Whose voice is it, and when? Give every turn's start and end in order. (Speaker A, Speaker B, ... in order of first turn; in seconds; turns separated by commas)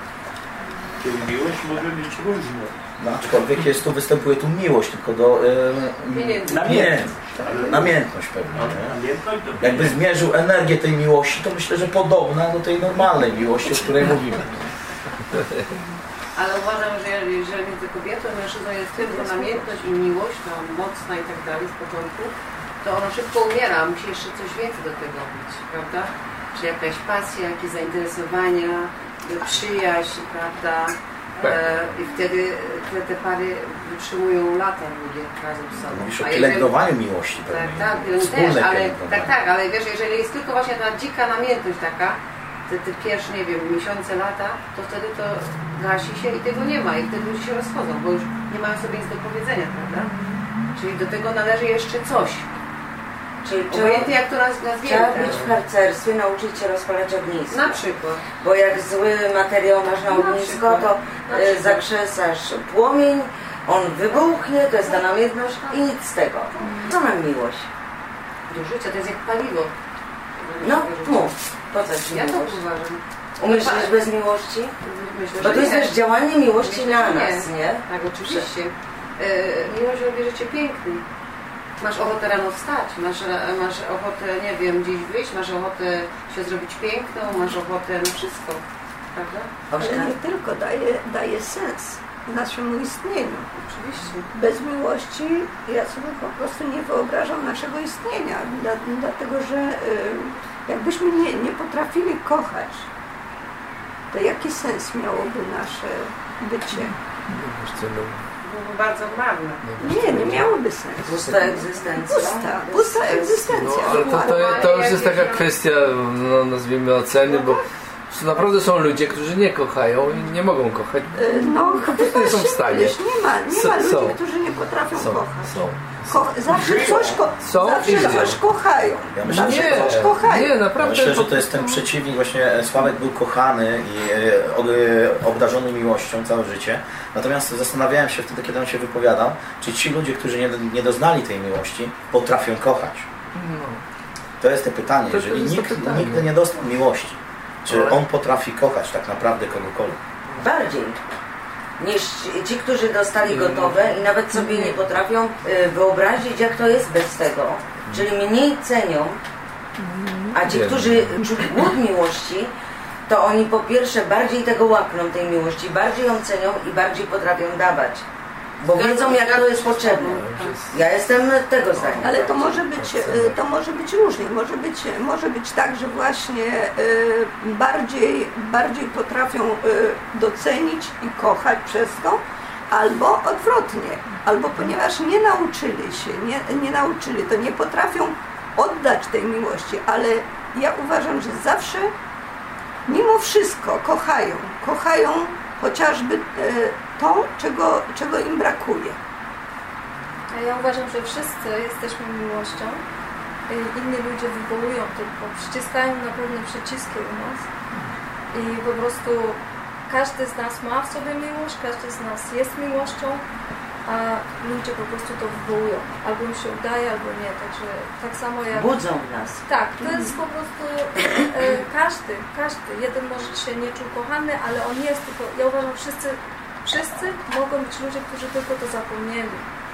Speaker A: 1.0-3.5, Speaker B: 3.0-8.9, Speaker C: 6.1-7.0, Speaker A: 6.5-10.0, Speaker B: 9.6-14.6, Speaker D: 15.3-15.7, Speaker C: 16.3-36.7, Speaker D: 31.4-31.7, Speaker B: 35.9-39.3, Speaker C: 37.5-42.2, Speaker C: 42.7-50.2, Speaker C: 50.7-52.5, Speaker E: 53.4-54.1, Speaker C: 53.7-55.5, Speaker E: 54.8-67.7, Speaker C: 57.5-58.2, Speaker C: 60.0-61.8, Speaker C: 66.6-66.9, Speaker C: 68.5-69.7, Speaker C: 70.4-71.3, Speaker E: 70.6-72.6, Speaker C: 72.1-74.0, Speaker E: 73.4-74.8, Speaker C: 74.8-81.0, Speaker E: 75.3-78.5, Speaker C: 81.8-88.6, Speaker C: 89.1-89.5, Speaker E: 89.7-90.2, Speaker F: 89.8-93.5, Speaker C: 93.7-94.4, Speaker F: 94.3-102.8, Speaker F: 104.1-106.9, Speaker D: 106.7-108.2, Speaker C: 108.4-109.6, Speaker D: 109.6-110.5, Speaker F: 109.8-114.7, Speaker E: 111.0-113.8, Speaker D: 113.5-124.2, Speaker C: 113.8-115.5, Speaker F: 117.2-117.6, Speaker F: 121.1-125.5, Speaker D: 124.9-126.3, Speaker F: 126.1-130.6, Speaker A: 126.5-127.3, Speaker D: 127.4-128.4, Speaker B: 129.1-143.1, Speaker D: 129.3-131.8, Speaker D: 143.3-143.8, Speaker B: 144.4-150.0, Speaker D: 145.1-146.3, Speaker D: 147.7-148.0, Speaker E: 150.4-151.0, Speaker E: 151.8-159.2, Speaker D: 153.2-153.9, Speaker D: 154.4-154.7, Speaker D: 159.8-161.4, Speaker E: 160.3-162.5, Speaker E: 163.1-168.1, Speaker E: 168.6-172.6, Speaker C: 168.7-170.6, Speaker D: 170.0-170.8, Speaker D: 171.7-173.4, Speaker F: 172.0-191.9, Speaker F: 192.9-199.0, Speaker G: 200.3-202.8, Speaker G: 203.5-207.5, Speaker G: 208.3-213.2, Speaker G: 213.8-218.8, Speaker E: 218.5-219.4, Speaker G: 219.5-229.4, Speaker F: 219.8-220.1